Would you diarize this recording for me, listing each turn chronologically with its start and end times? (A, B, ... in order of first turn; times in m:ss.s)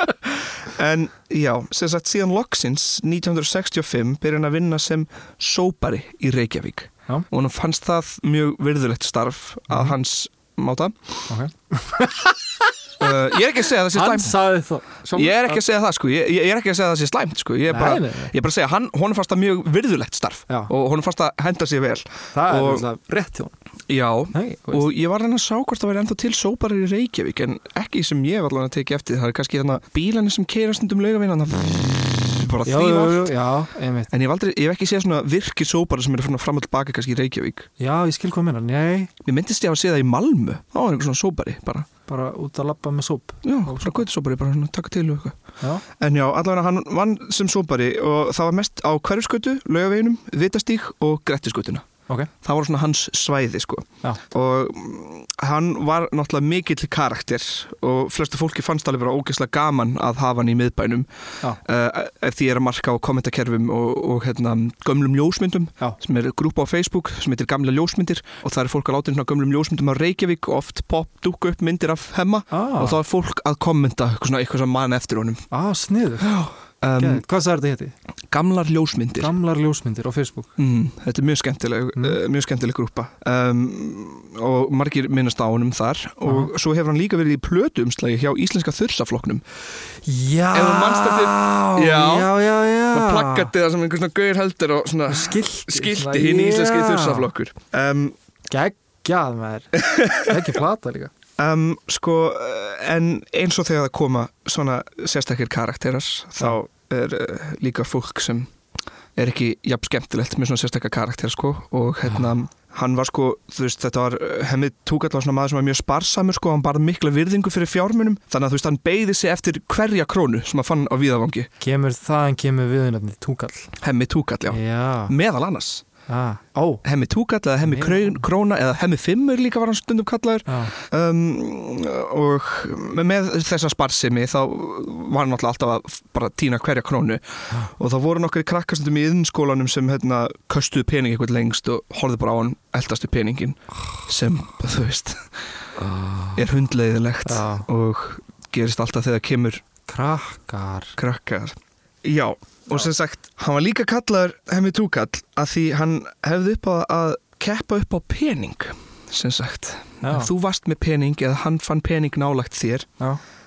0:00.2-0:11.3 A
0:11.3-0:12.4 B
0:13.0-0:14.4 A
0:13.9-0:15.6 B
0:15.1-0:22.9 A
0:17.7-0:18.3 B
0:22.3-0:23.5 B
0:23.9-0:33.3 A
0:24.3-0:24.9 B
0:32.6-0:34.1 B
0:34.1-0:37.7 A
0:37.8-0:39.1 B
0:39.2-0:41.9 A
0:42.1-0:44.0 B
0:43.4-0:45.4 A
0:45.9-0:51.9 A
0:52.4-1:01.1 A
1:01.6-1:15.4 A
1:12.5-1:13.0 B
1:15.5-1:16.3 B
1:16.2-1:17.2 A
1:17.0-1:17.9 B
1:18.3-1:19.3 A
1:19.2-1:20.5 B
1:20.6-1:29.4 A
1:26.3-1:26.5 B
1:30.0-1:33.5 B
1:30.5-1:32.4 A
1:32.9-1:38.2 A
1:35.1-1:37.3 B
1:38.5-1:41.1 B
1:39.8-1:40.4 A
1:41.4-1:48.5 A
1:49.2-2:01.5 A
2:01.6-2:03.7 B
2:03.8-2:05.8 A
2:04.5-2:05.1 B
2:06.1-2:06.8 B
2:06.8-2:25.3 A
2:07.6-2:08.2 B
2:10.5-2:10.7 B
2:25.8-2:26.4 B
2:26.4-2:29.6 A
2:27.2-2:27.7 B
2:29.9-2:31.0 B
2:31.0-2:42.9 A
2:40.0-2:40.3 B